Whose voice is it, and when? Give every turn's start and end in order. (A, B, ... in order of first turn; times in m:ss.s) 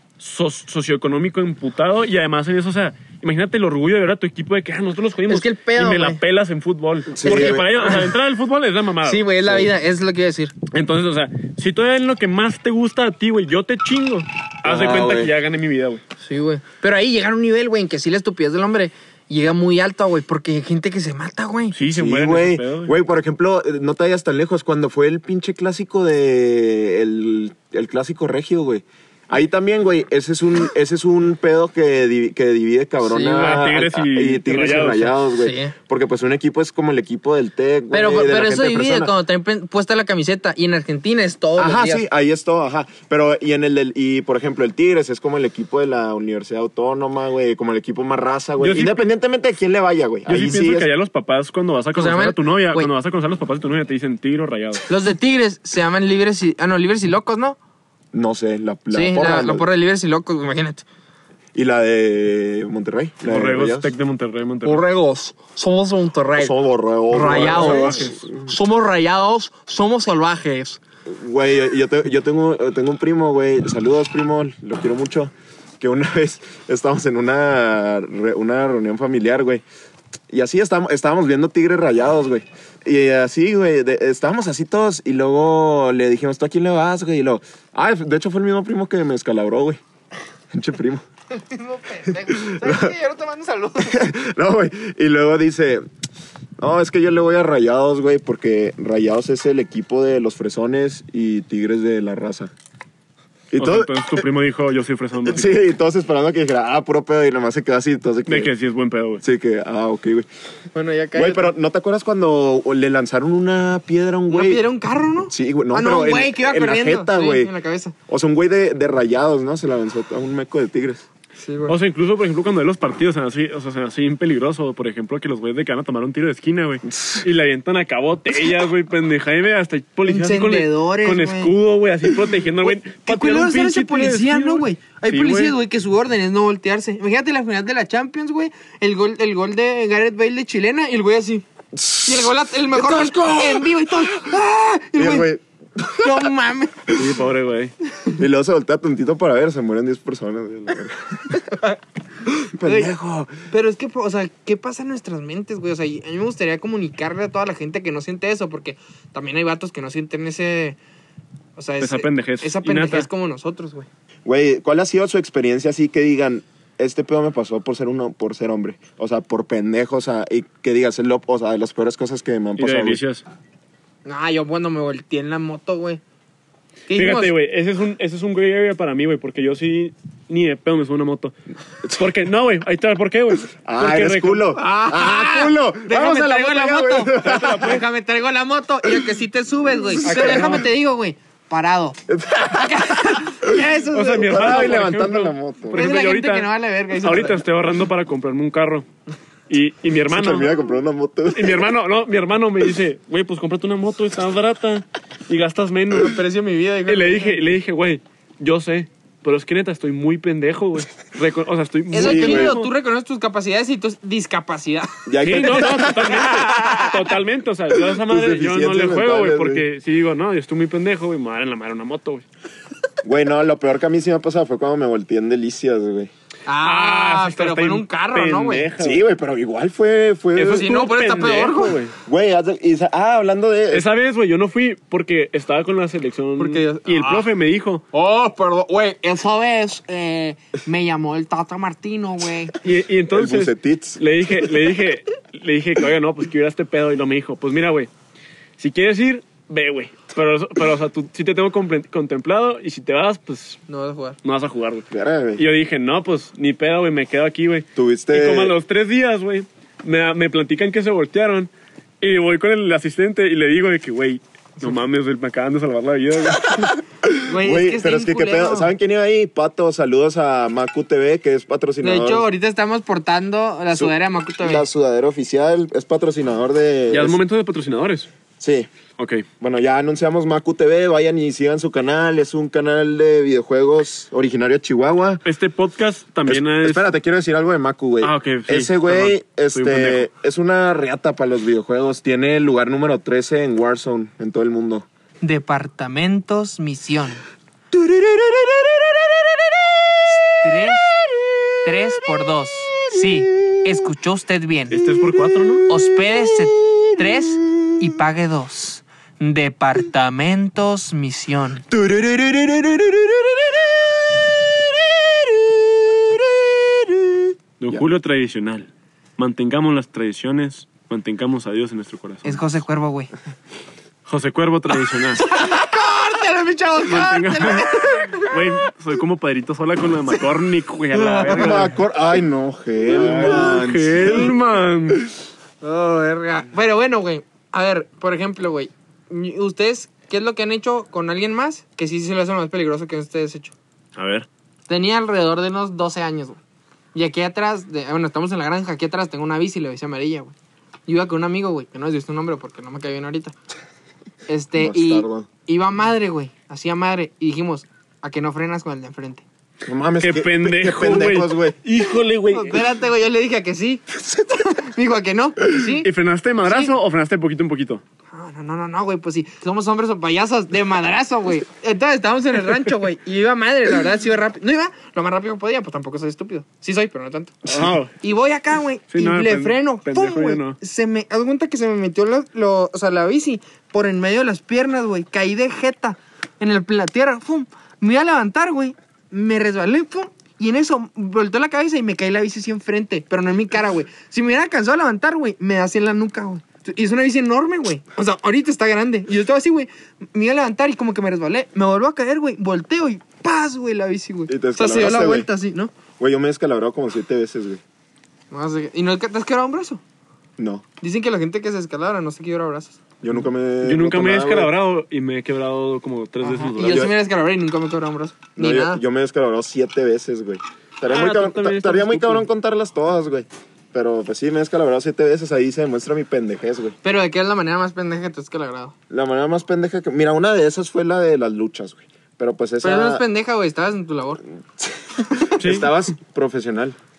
0:00.2-0:09.2 A
0:05.3-0:06.2 B
0:07.1-0:08.1 C
0:07.2-0:07.6 B
0:09.0-0:10.5 B
0:09.4-0:09.7 C
0:10.7-0:16.0 A
0:14.6-0:15.3 C
0:16.2-0:21.7 B
0:21.7-0:22.9 A
0:21.9-0:39.1 C
0:33.0-0:33.6 B
0:33.2-0:35.2 A
0:35.3-0:35.7 B
0:37.9-0:42.0 B
0:41.6-0:50.9 C
0:48.6-0:49.0 A
0:50.2-0:54.8 A
0:52.0-0:52.9 B
0:54.9-0:57.6 B
0:58.1-0:59.7 C
0:58.9-1:00.8 B
1:01.5-1:03.9 C
1:03.2-1:04.8 A
1:04.6-1:06.5 B
1:06.4-1:08.5 C
1:07.1-1:10.8 B
1:07.2-1:08.2 A
1:11.1-1:19.6 C
1:20.3-1:29.8 C
1:30.5-1:31.0 C
1:31.3-1:34.0 B
1:32.3-1:32.9 C
1:33.8-1:35.8 C
1:36.6-1:42.5 C
1:43.5-1:44.2 C
1:43.6-1:45.6 A
1:45.2-1:48.5 C
1:48.2-1:49.2 A
1:49.2-1:50.2 C
1:50.7-1:51.5 B
1:51.1-1:54.6 C
1:54.3-1:57.9 B
1:55.3-1:57.5 C
1:58.1-2:01.0 C
2:01.4-2:01.8 B
2:01.7-2:15.5 A
2:10.0-2:11.5 B
2:12.6-2:21.4 B
2:21.7-2:24.2 C
2:22.0-2:25.3 B
2:24.9-2:26.3 C
2:26.0-2:26.9 B
2:26.9-2:27.7 A
2:28.1-2:31.4 C
2:32.3-2:33.4 C
2:32.6-2:32.9 B
2:33.5-2:40.8 B
2:41.6-2:43.9 B
2:41.8-2:43.1 A
2:44.2-2:53.0 C
2:52.6-2:53.2 A
2:54.0-2:56.0 B
2:56.9-2:57.3 B
2:56.9-3:01.3 A
3:01.8-3:04.6 A
3:03.6-3:07.8 C
3:04.6-3:12.0 B
3:07.1-3:07.8 A
3:10.0-3:10.6 C
3:10.1-3:10.6 A
3:12.1-3:13.7 C
3:12.5-3:14.7 B
3:13.9-3:18.9 A
3:14.2-3:15.9 C
3:15.7-3:17.4 B
3:19.5-3:20.5 A
3:20.1-3:21.7 C
3:21.3-3:26.2 A
3:25.9-3:27.4 B
3:26.9-3:32.7 A
3:31.9-3:36.9 B
3:32.0-3:32.5 C
3:35.0-3:36.7 C
3:35.2-3:42.2 A
3:37.7-3:39.6 C
3:43.0-3:46.1 C
3:46.4-3:48.7 B
3:46.6-3:49.0 A
3:48.8-3:50.7 C
3:50.4-3:51.9 A
3:50.4-3:51.8 B
3:52.0-3:53.9 C
3:53.7-3:57.8 A
3:56.4-3:57.3 B
3:57.9-4:02.5 B
4:02.6-4:07.9 A
4:03.1-4:04.0 C
4:08.6-4:13.6 A
4:13.7-4:14.2 B
4:14.2-4:26.8 A
4:14.9-4:15.4 C
4:17.8-4:18.6 C
4:27.0-4:32.2 C
4:27.2-4:28.7 B
4:31.8-4:34.6 B
4:33.7-4:37.2 C
4:36.9-4:38.1 A
4:38.4-4:38.7 C
4:39.0-4:39.2 A
4:39.4-4:45.2 C
4:45.2-4:46.8 A
4:46.3-4:54.8 C
4:48.0-4:50.0 A
4:55.2-4:57.2 B
4:57.7-5:01.7 C
5:00.2-5:01.0 B
5:01.6-5:04.8 B
5:02.9-5:03.6 C
5:04.7-5:05.7 A
5:05.1-5:07.7 C
5:05.7-5:11.6 B
5:11.7-5:17.8 C
5:17.6-5:22.4 A
5:22.2-5:23.1 B
5:24.0-5:25.2 A
5:25.2-5:28.4 B
5:26.8-5:31.8 A
5:31.0-5:34.4 C
5:31.1-5:31.6 B
5:32.9-5:35.1 A
5:35.6-5:43.5 B
5:43.9-5:44.3 A
5:44.7-5:46.4 B
5:46.9-5:50.3 B
5:50.9-5:53.3 B
5:54.3-5:59.2 B
5:54.6-5:55.3 C
5:59.6-6:01.6 C
6:00.0-6:02.6 A
6:02.3-6:03.8 B
6:04.0-6:04.5 C
6:04.4-6:05.9 B
6:05.8-6:07.8 A
6:06.4-6:06.7 B
6:08.1-6:17.4 B
6:17.4-6:17.7 C
6:17.5-6:17.9 A
6:18.0-6:45.7 B
6:18.9-6:20.6 A
6:44.3-6:45.3 C
6:46.0-6:47.6 C
6:48.3-6:49.8 B
6:50.4-6:50.6 C
6:50.8-6:52.8 B
6:53.0-6:54.5 C
6:53.6-6:56.9 A
6:56.2-6:58.8 B
6:58.4-7:06.8 C
7:00.8-7:02.2 A
7:06.8-7:08.7 B
7:08.9-7:13.0 C
7:12.6-7:14.2 B
7:14.6-7:16.8 C
7:15.4-7:15.7 A